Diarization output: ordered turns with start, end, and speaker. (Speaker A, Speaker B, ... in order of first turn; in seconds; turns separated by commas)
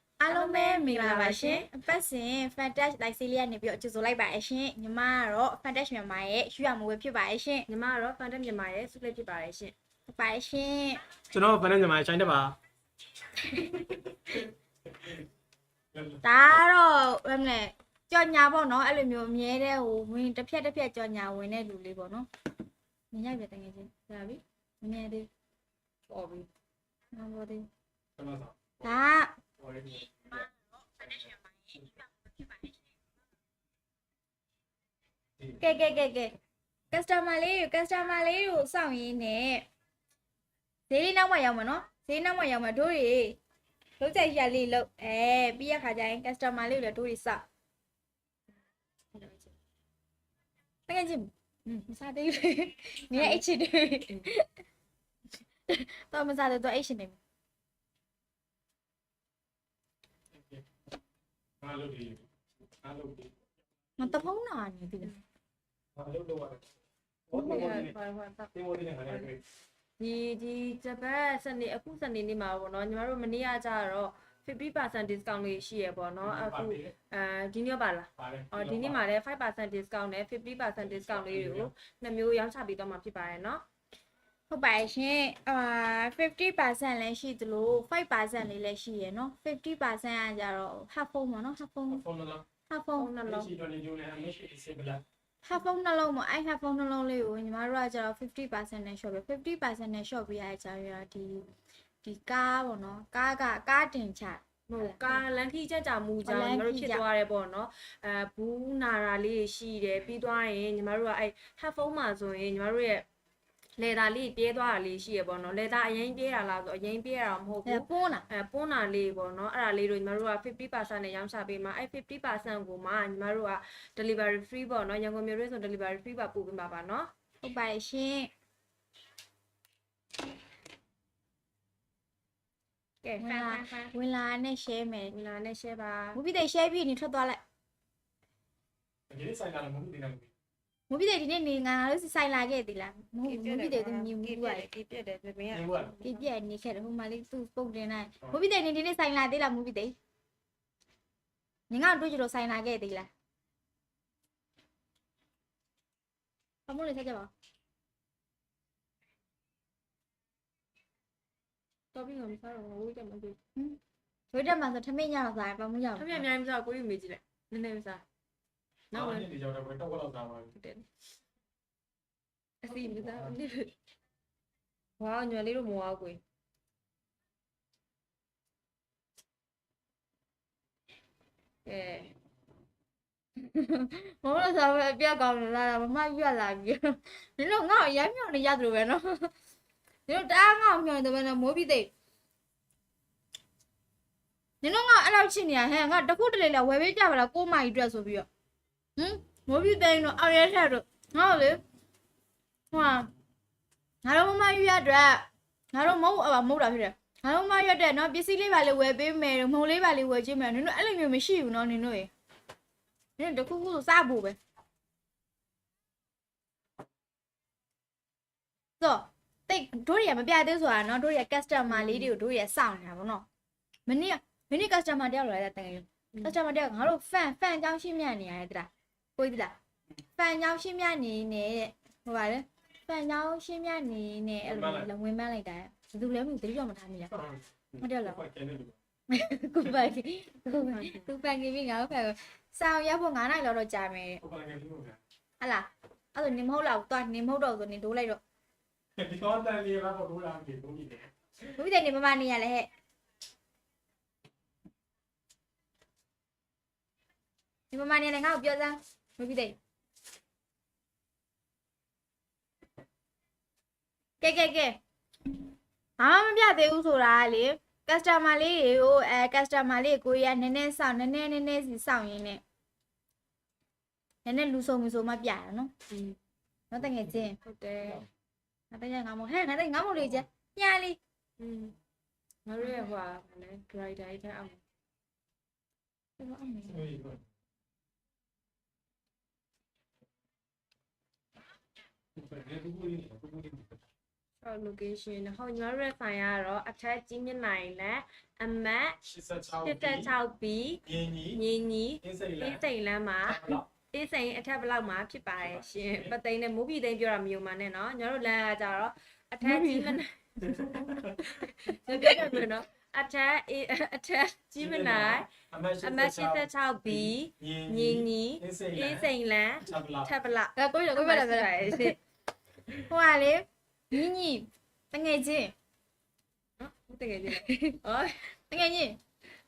Speaker A: 0.2-7.7, Speaker B: 0.3-1.7, Speaker B: 7.7-9.7, Speaker A: 10.1-11.0, Speaker C: 11.3-12.6, Speaker C: 13.7-14.4, Speaker C: 15.9-16.2, Speaker A: 16.2-22.3, Speaker A: 23.1-23.9, Speaker B: 24.1-24.4, Speaker A: 24.8-25.3, Speaker B: 26.1-26.5, Speaker A: 27.1-27.7, Speaker C: 28.2-29.0, Speaker A: 28.8-29.3, Speaker C: 29.6-30.5, Speaker C: 31.0-31.3, Speaker A: 31.1-31.8, Speaker A: 35.6-36.3, Speaker A: 36.9-39.7, Speaker A: 40.9-43.4, Speaker A: 44.0-47.4, Speaker B: 49.1-49.5, Speaker A: 50.9-54.5, Speaker B: 53.1-53.4, Speaker A: 55.7-57.2, Speaker C: 60.4-60.6, Speaker C: 61.6-62.3, Speaker C: 62.8-63.4, Speaker A: 64.0-65.2, Speaker C: 66.0-66.7, Speaker C: 67.3-68.0, Speaker B: 67.3-68.5, Speaker C: 68.5-69.4, Speaker B: 70.0-83.6, Speaker C: 76.2-76.9, Speaker C: 78.2-79.0, Speaker C: 80.8-81.7, Speaker A: 84.5-92.0, Speaker C: 91.9-92.5, Speaker A: 92.7-93.1, Speaker B: 93.0-93.5, Speaker C: 93.2-95.0, Speaker A: 95.4-101.5, Speaker A: 102.0-105.2, Speaker B: 104.7-113.0, Speaker A: 106.2-107.0, Speaker B: 113.8-127.1, Speaker A: 117.7-118.2, Speaker A: 127.4-128.3, Speaker B: 133.0-133.9, Speaker A: 133.2-135.2, Speaker B: 135.1-136.2, Speaker A: 136.2-137.4, Speaker C: 139.1-140.3, Speaker A: 140.9-144.7, Speaker B: 143.2-146.3, Speaker C: 145.5-145.9, Speaker A: 146.0-149.9, Speaker A: 151.7-153.1, Speaker A: 156.7-157.3, Speaker B: 161.9-163.4, Speaker A: 164.3-166.3, Speaker B: 166.0-168.0, Speaker B: 168.9-169.3, Speaker C: 168.9-170.5, Speaker B: 170.5-170.9, Speaker B: 172.6-173.7, Speaker C: 173.0-173.3, Speaker B: 175.0-176.2, Speaker B: 181.7-182.1, Speaker A: 183.4-189.3, Speaker A: 190.1-191.9, Speaker A: 194.6-198.3, Speaker A: 199.0-201.6, Speaker A: 202.7-203.1, Speaker A: 204.0-212.1, Speaker A: 213.2-214.4, Speaker A: 218.8-223.3, Speaker B: 221.7-222.1, Speaker A: 223.9-229.6, Speaker A: 230.2-237.2, Speaker C: 234.4-234.9, Speaker C: 237.1-238.8, Speaker A: 237.8-238.2, Speaker A: 239.1-244.2, Speaker B: 240.7-241.1, Speaker C: 244.2-245.0, Speaker A: 245.4-248.2, Speaker C: 249.0-251.1, Speaker A: 251.6-252.7, Speaker A: 257.7-259.6, Speaker A: 264.2-264.8, Speaker A: 266.0-272.4, Speaker A: 274.2-275.7, Speaker B: 275.9-276.2, Speaker A: 276.7-277.4, Speaker B: 277.4-278.1, Speaker A: 278.7-281.0, Speaker B: 281.4-281.8, Speaker B: 282.5-284.6, Speaker A: 282.6-282.9, Speaker A: 286.2-286.9, Speaker C: 286.7-287.2, Speaker C: 292.2-293.8, Speaker B: 294.4-299.0, Speaker C: 299.0-300.1, Speaker B: 299.6-310.1, Speaker C: 300.9-301.4, Speaker C: 302.0-302.7, Speaker C: 303.2-303.7, Speaker C: 305.4-306.1, Speaker A: 309.4-310.0, Speaker C: 310.4-311.3, Speaker B: 311.2-315.3, Speaker A: 311.9-312.2, Speaker C: 314.6-320.1, Speaker B: 315.8-322.0, Speaker A: 320.6-322.0, Speaker A: 322.9-325.5, Speaker B: 326.6-328.3, Speaker A: 327.3-327.8, Speaker A: 328.5-329.0